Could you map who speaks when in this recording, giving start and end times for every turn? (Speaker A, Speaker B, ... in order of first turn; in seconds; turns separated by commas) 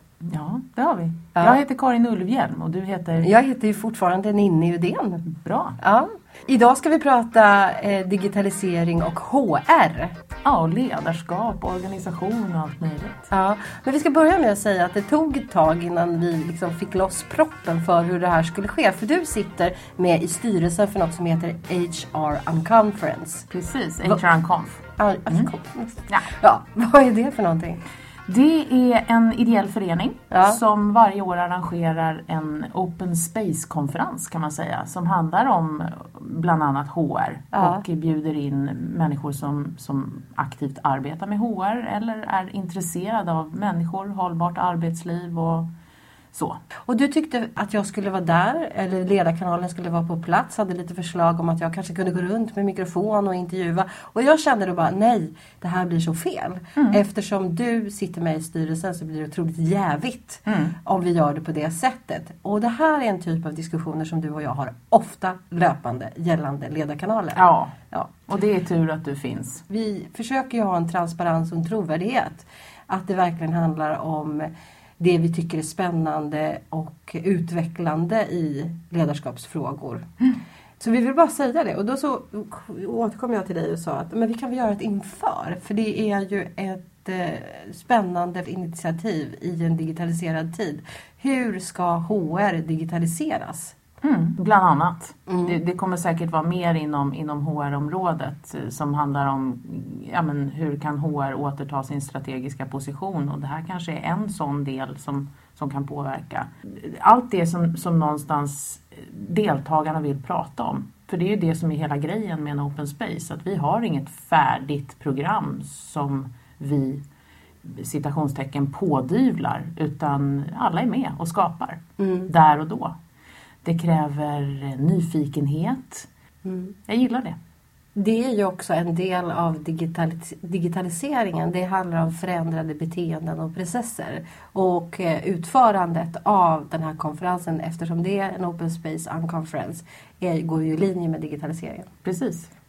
Speaker A: 0.3-3.3, Speaker B: 3.2-5.2, Speaker A: 5.2-5.8, Speaker B: 5.8-10.2, Speaker A: 10.4-13.2, Speaker B: 13.3-23.5, Speaker A: 23.5-25.5, Speaker B: 25.0-27.8, Speaker A: 28.3-45.7, Speaker B: 30.3-30.6, Speaker B: 37.5-37.8, Speaker A: 46.3-46.6, Speaker B: 46.9-67.4, Speaker A: 60.5-60.8, Speaker A: 67.4-69.6, Speaker B: 69.7-93.8, Speaker A: 94.0-117.0, Speaker B: 95.3-95.6, Speaker A: 117.6-123.0, Speaker B: 122.0-122.3, Speaker A: 123.6-126.1, Speaker B: 126.5-126.8, Speaker A: 126.9-127.4, Speaker B: 128.0-141.9, Speaker A: 142.0-142.5